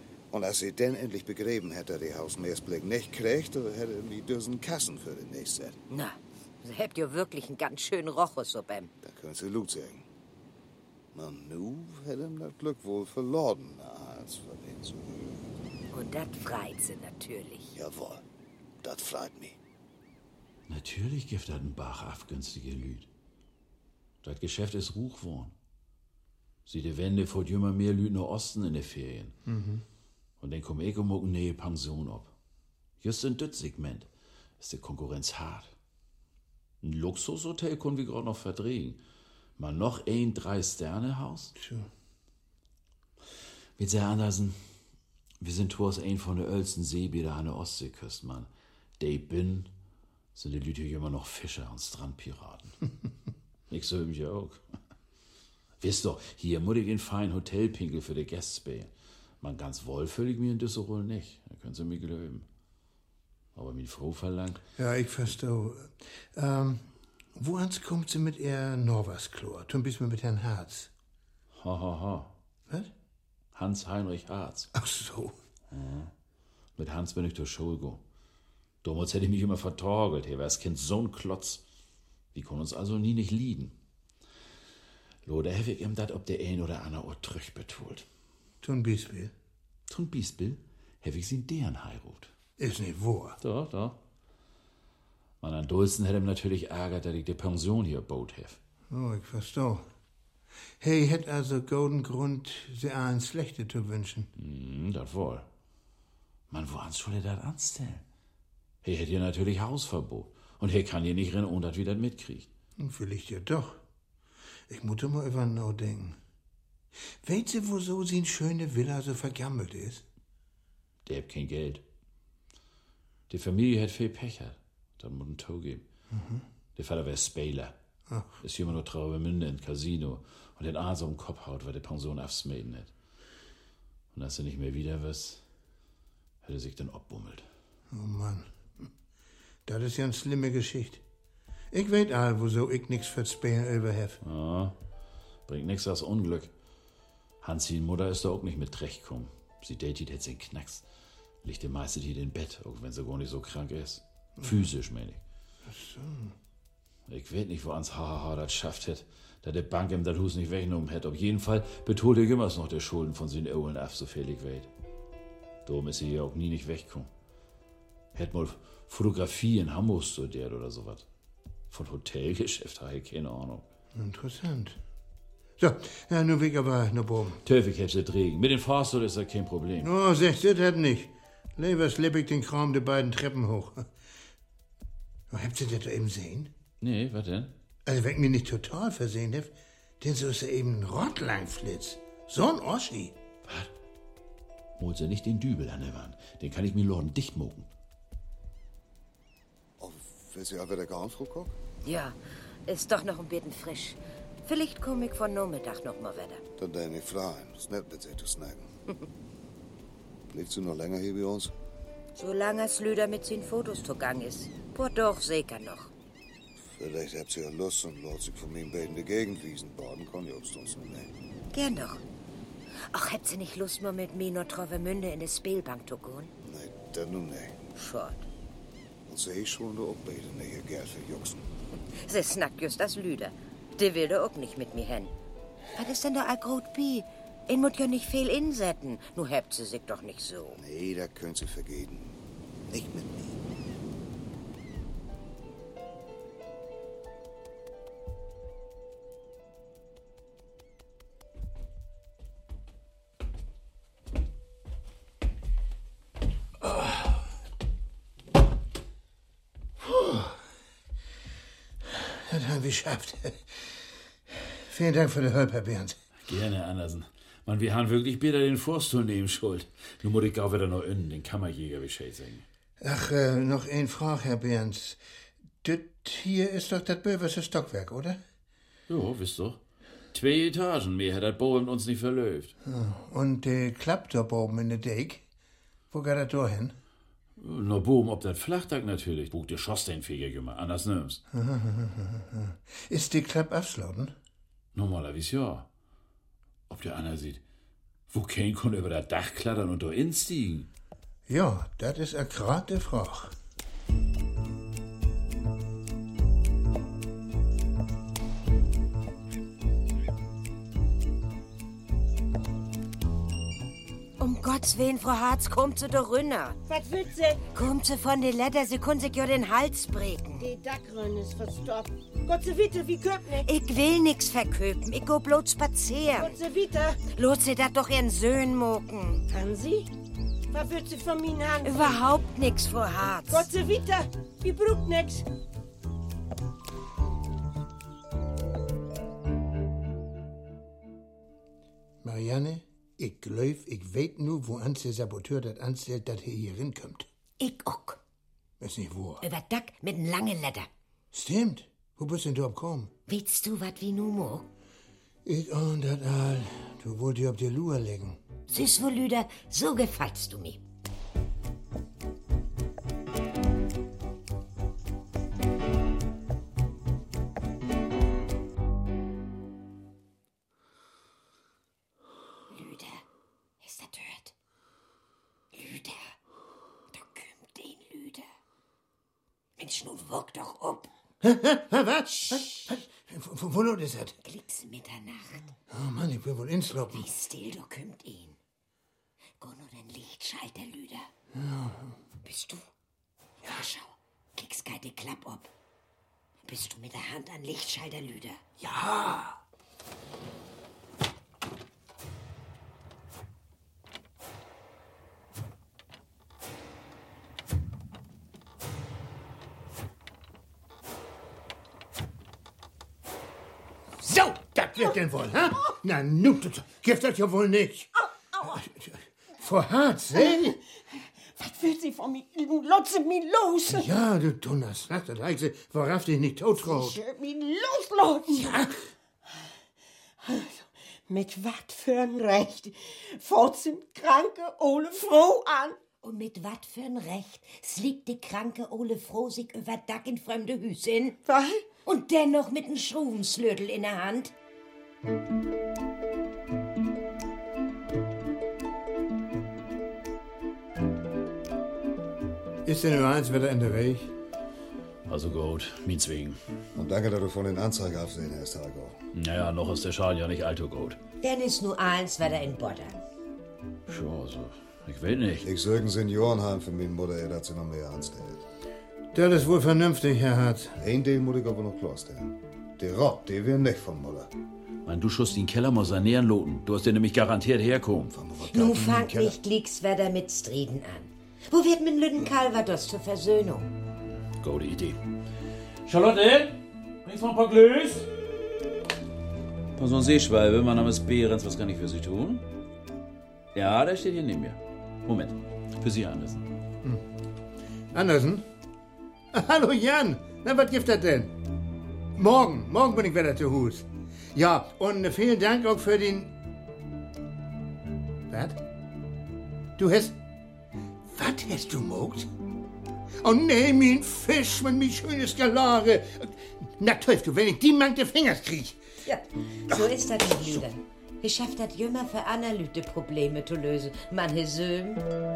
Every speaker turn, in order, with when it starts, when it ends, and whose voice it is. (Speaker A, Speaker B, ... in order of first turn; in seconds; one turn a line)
Speaker A: 0.3-5.8
Speaker B: 5.9-8.9
Speaker A: 9.0-10.1
Speaker A: 11.1-15.5
Speaker B: 15.9-17.8
Speaker A: 17.7-18.2
Speaker A: 18.8-19.6
Speaker C: 20.7-23.1
Speaker C: 24.2-25.5
Speaker C: 26.6-29.3
Speaker D: 29.5-29.8
Speaker C: 30.4-32.3
Speaker C: 33.0-34.1
Speaker C: 34.6-35.7
Speaker C: 36.8-39.0
Speaker C: 39.6-41.5
Speaker D: 41.6-41.9
Speaker C: 43.8-44.5
Speaker C: 45.4-49.7
Speaker C: 50.3-52.8
Speaker C: 53.7-54.7
Speaker C: 55.8-58.9
Speaker C: 59.4-62.5
Speaker C: 63.5-64.6
Speaker D: 64.8-70.9
Speaker C: 71.6-72.3
Speaker C: 73.5-74.7
Speaker D: 74.7-75.3
Speaker C: 75.7-76.1
Speaker C: 76.8-78.0
Speaker C: 78.8-81.6
Speaker C: 82.3-83.7
Speaker C: 85.2-88.0
Speaker D: 88.6-89.3
Speaker C: 89.9-92.3
Speaker D: 92.6-93.4
Speaker C: 93.4-94.0
Speaker C: 95.4-98.6
Speaker D: 98.9-99.8
Speaker D: 100.8-104.3
Speaker C: 104.4-105.5
Speaker C: 106.5-108.0
Speaker C: 108.8-112.5
Speaker D: 112.8-113.8
Speaker D: 114.7-116.2
Speaker D: 117.2-120.0
Speaker C: 121.0-121.8
Speaker C: 123.3-125.8
Speaker D: 126.1-126.4
Speaker C: 126.8-127.7
Speaker D: 128.1-128.4
Speaker C: 128.4-132.9
Speaker C: 134.1-135.4
Speaker C: 136.4-137.4
Speaker D: 137.9-138.9
Speaker D: 139.7-141.0
Speaker D: 141.7-144.2
Speaker C: 144.2-144.7
Speaker C: 145.5-146.5
Speaker C: 147.4-150.8
Speaker C: 151.4-155.2
Speaker D: 155.7-156.3
Speaker C: 157.1-164.7
Speaker C: 165.7-167.1
Speaker C: 168.1-171.1
Speaker C: 171.7-173.7
Speaker D: 173.9-174.8
Speaker D: 175.6-177.4
Speaker C: 177.4-179.9
Speaker D: 179.8-183.9
Speaker D: 185.3-186.5
Speaker C: 186.8-187.5
Speaker D: 187.8-193.2
Speaker C: 193.4-193.7
Speaker C: 194.8-197.7
Speaker A: 199.8-201.5
Speaker B: 201.8-206.4
Speaker A: 206.6-208.7
Speaker A: 210.3-211.5
Speaker B: 212.1-215.9
Speaker A: 216.6-221.1
Speaker B: 221.5-222.0
Speaker B: 222.8-226.3
Speaker A: 226.4-227.6
Speaker B: 227.7-228.2
Speaker A: 229.1-231.4
Speaker B: 231.9-235.1
Speaker B: 235.8-240.6
Speaker A: 240.6-242.2
Speaker A: 242.7-243.4
Speaker D: 259.8-260.4
Speaker D: 261.8-263.7
Speaker D: 264.3-266.0
Speaker C: 266.3-272.4
Speaker D: 272.8-275.0
Speaker D: 275.6-278.2
Speaker C: 278.9-279.6
Speaker C: 280.1-282.5
Speaker D: 282.6-285.2
Speaker D: 285.9-286.7
Speaker C: 287.4-291.2
Speaker D: 291.3-294.1
Speaker C: 294.7-295.7
Speaker C: 296.7-297.4
Speaker C: 298.1-300.7
Speaker D: 301.3-303.3
Speaker B: 314.2-316.6
Speaker E: 316.7-317.4
Speaker B: 317.5-320.5
Speaker E: 320.4-323.5
Speaker B: 323.4-326.4
Speaker E: 326.1-327.0
Speaker B: 327.1-329.2
Speaker E: 329.3-329.9
Speaker E: 330.5-332.0
Speaker B: 331.6-333.5
Speaker E: 333.3-335.3
Speaker D: 342.0-347.1
Speaker B: 347.4-348.0
Speaker D: 348.6-349.2
Speaker B: 349.2-350.7
Speaker D: 351.1-352.9
Speaker B: 353.1-354.5
Speaker D: 355.2-358.2
Speaker B: 358.5-360.6
Speaker B: 372.5-373.0
Speaker B: 373.6-374.3
Speaker B: 375.5-376.1
Speaker B: 376.9-378.3
Speaker B: 379.6-380.9
Speaker D: 381.2-384.1
Speaker B: 382.1-382.7
Speaker B: 384.2-385.5
Speaker D: 385.7-387.1
Speaker B: 386.9-388.4
Speaker B: 389.4-391.1
Speaker D: 391.3-391.9
Speaker B: 392.2-392.7
Speaker B: 393.4-395.5
Speaker B: 396.4-398.4
Speaker D: 398.6-399.4
Speaker D: 414.0-420.6
Speaker E: 420.2-423.9
Speaker D: 423.7-427.0
Speaker E: 426.6-428.6
Speaker D: 428.3-428.8
Speaker E: 430.2-435.8
Speaker B: 436.0-441.2
Speaker E: 441.2-441.6
Speaker B: 441.8-444.3
Speaker D: 452.6-454.1
Speaker C: 455.1-456.4
Speaker A: 456.7-459.0
Speaker C: 459.1-461.0
Speaker B: 461.2-463.0
Speaker C: 463.9-465.4
Speaker A: 465.4-468.4
Speaker D: 469.1-470.7
Speaker A: 470.8-474.3
Speaker C: 474.9-478.1
Speaker A: 478.1-479.4
Speaker B: 478.4-483.7
Speaker C: 484.4-485.0
Speaker C: 485.9-488.1
Speaker C: 489.8-492.4
Speaker C: 493.5-496.4
Speaker D: 497.9-498.4
Speaker D: 499.3-501.3
Speaker D: 502.1-506.3
Speaker D: 508.3-508.6
Speaker D: 509.8-510.2
Speaker D: 511.1-512.3
Speaker D: 513.2-518.8
Speaker B: 519.0-525.1